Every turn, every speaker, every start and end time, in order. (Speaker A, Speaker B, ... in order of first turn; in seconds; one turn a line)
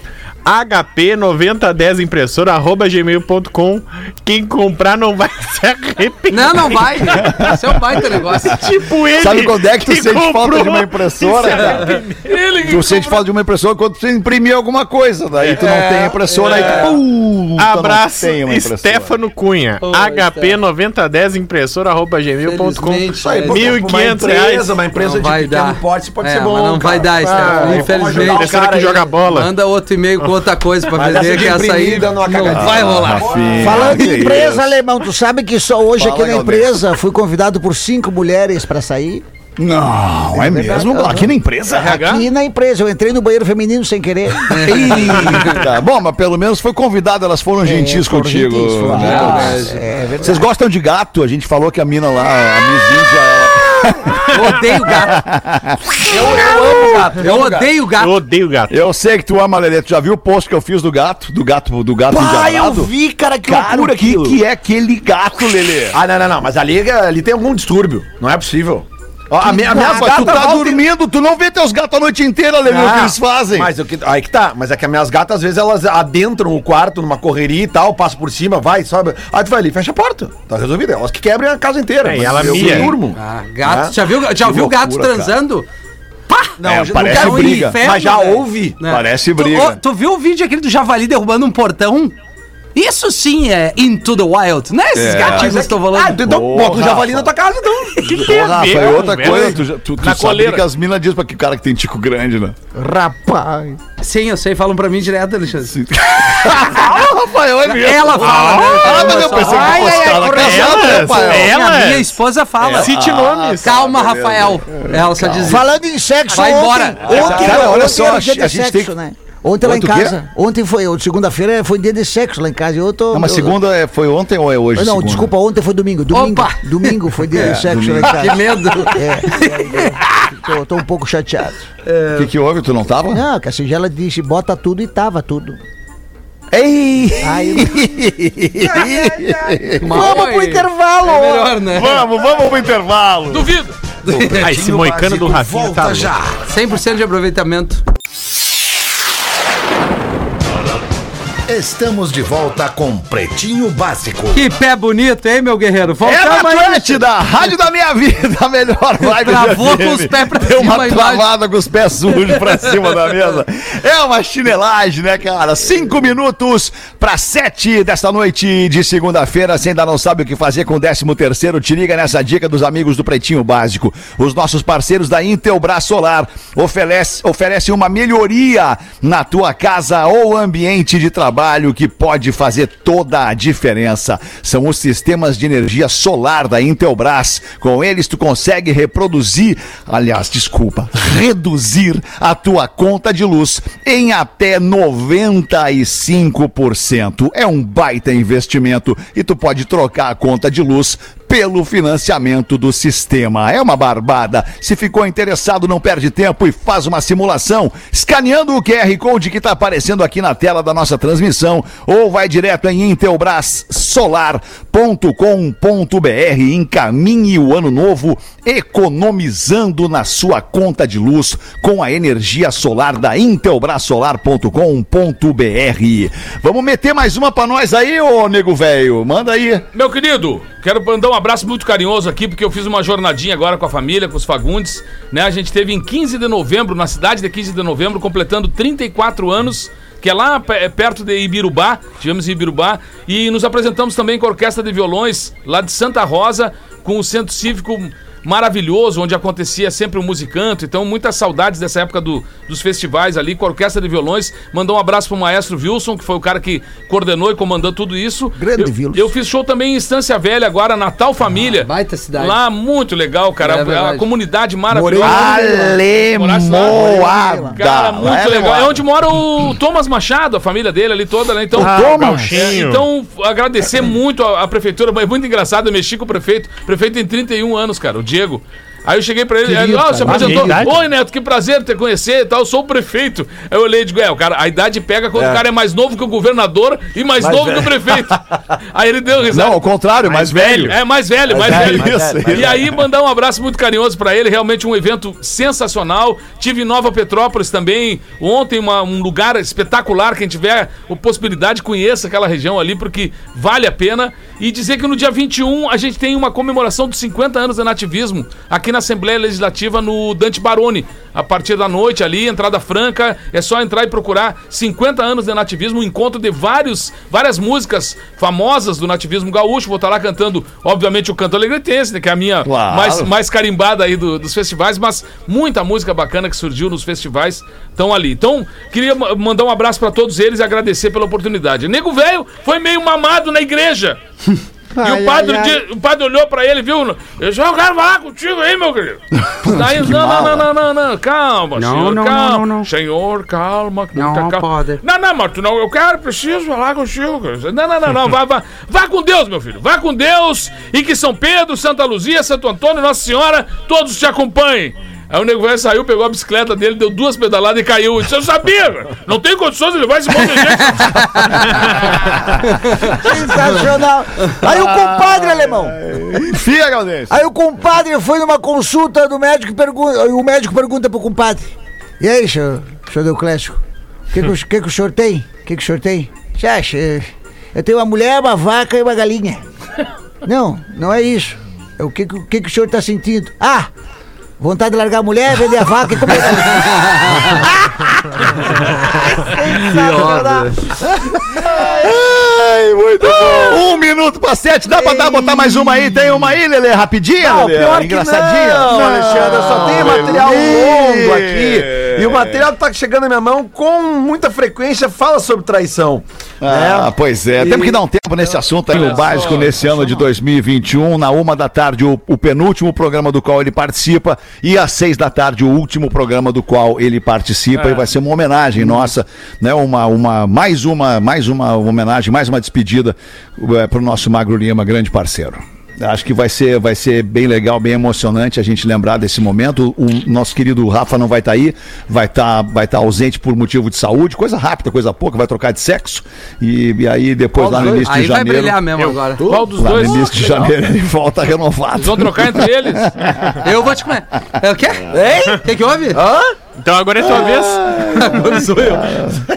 Speaker A: 0.4-7.2
Speaker B: 6.3-8.7
Speaker C: 7.1-11.9
Speaker A: 8.4-12.4
Speaker D: 12.2-13.2
Speaker C: 12.6-19.1
Speaker B: 15.6-17.0
Speaker A: 17.6-24.8
Speaker B: 19.8-20.6
Speaker B: 22.4-23.8
Speaker E: 23.1-29.1
Speaker B: 24.9-28.5
Speaker A: 27.2-29.5
Speaker B: 29.3-33.8
Speaker E: 30.9-34.1
Speaker C: 32.5-34.7
Speaker F: 33.5-39.2
Speaker C: 36.0-36.8
Speaker C: 39.6-42.0
Speaker F: 40.3-45.2
Speaker D: 41.8-42.3
Speaker B: 44.5-45.2
Speaker C: 44.5-57.0
Speaker F: 47.6-50.4
Speaker E: 48.9-49.4
Speaker B: 48.9-49.8
Speaker B: 54.3-55.2
Speaker E: 56.0-57.7
Speaker B: 57.2-58.2
Speaker A: 58.0-58.7
Speaker C: 58.7-62.9
Speaker E: 62.1-64.4
Speaker C: 63.5-66.0
Speaker E: 65.9-70.8
Speaker C: 69.5-73.7
Speaker F: 69.5-70.4
Speaker E: 72.6-84.0
Speaker A: 82.0-83.0
Speaker B: 83.1-85.7
Speaker C: 84.4-85.4
Speaker B: 86.3-92.2
Speaker E: 86.6-88.8
Speaker C: 86.6-87.8
Speaker C: 88.8-89.8
Speaker B: 92.7-96.2
Speaker C: 94.9-97.3
Speaker E: 95.1-98.3
Speaker A: 98.0-99.6
Speaker C: 98.1-102.5
Speaker D: 100.0-100.6
Speaker F: 102.7-103.8
Speaker B: 104.0-105.8
Speaker C: 105.7-111.6
Speaker B: 107.6-112.9
Speaker A: 108.2-109.2
Speaker F: 109.2-110.5
Speaker A: 110.3-113.7
Speaker C: 112.6-115.6
Speaker B: 113.6-115.6
Speaker F: 115.4-123.5
Speaker B: 116.3-117.5
Speaker C: 117.0-118.9
Speaker E: 117.0-118.0
Speaker C: 119.6-120.2
Speaker C: 123.1-125.3
Speaker F: 124.7-131.7
Speaker B: 126.1-129.9
Speaker C: 127.3-128.3
Speaker E: 131.9-132.3
Speaker C: 132.1-133.2
Speaker F: 133.1-135.6
Speaker C: 136.5-140.0
Speaker F: 137.2-141.6
Speaker B: 139.8-142.0
Speaker C: 141.7-143.5
Speaker D: 143.3-143.8
Speaker B: 144.0-144.5
Speaker A: 144.1-146.1
Speaker G: 144.3-146.4
Speaker B: 146.5-147.8
Speaker G: 151.5-154.5
Speaker B: 154.3-157.0
Speaker C: 156.0-229.7
Speaker B: 159.1-161.3
Speaker D: 229.7-265.5
Speaker F: 258.4-259.1
Speaker B: 261.6-262.4
Speaker B: 263.4-264.1
Speaker F: 264.7-265.9
Speaker C: 265.0-268.8
Speaker D: 266.1-288.2
Speaker F: 266.6-267.6
Speaker A: 271.6-272.9
Speaker F: 271.6-272.4
Speaker C: 279.6-280.6
Speaker A: 279.9-280.8
Speaker E: 280.0-280.6
Speaker E: 285.1-285.4
Speaker E: 287.2-288.1
Speaker D: 288.7-289.6
Speaker C: 289.3-292.8
Speaker A: 290.2-290.7
Speaker D: 290.5-334.0
Speaker E: 291.2-292.7
Speaker C: 322.4-323.1
Speaker F: 334.8-335.6
Speaker D: 334.8-361.9
Speaker C: 339.4-340.5
Speaker B: 341.6-342.7
Speaker B: 343.9-344.8
Speaker B: 360.7-361.4
Speaker F: 362.8-365.8
Speaker C: 364.4-367.3
Speaker F: 367.1-373.6
Speaker F: 374.1-379.4
Speaker F: 380.2-383.7
Speaker F: 384.4-390.7
Speaker B: 386.4-387.4
Speaker B: 389.5-390.6
Speaker C: 391.3-402.5
Speaker F: 394.8-395.9
Speaker E: 397.2-406.9
Speaker C: 406.4-438.6
Speaker D: 408.7-410.0
Speaker D: 417.5-417.8
Speaker E: 437.4-437.9
Speaker B: 437.8-439.2
Speaker E: 439.2-439.6
Speaker D: 439.2-440.4
Speaker C: 439.6-443.4
Speaker D: 441.8-442.9
Speaker B: 443.4-446.0
Speaker E: 444.9-445.4
Speaker E: 445.9-446.3
Speaker A: 446.6-448.0
Speaker C: 447.0-449.2
Speaker B: 447.9-449.0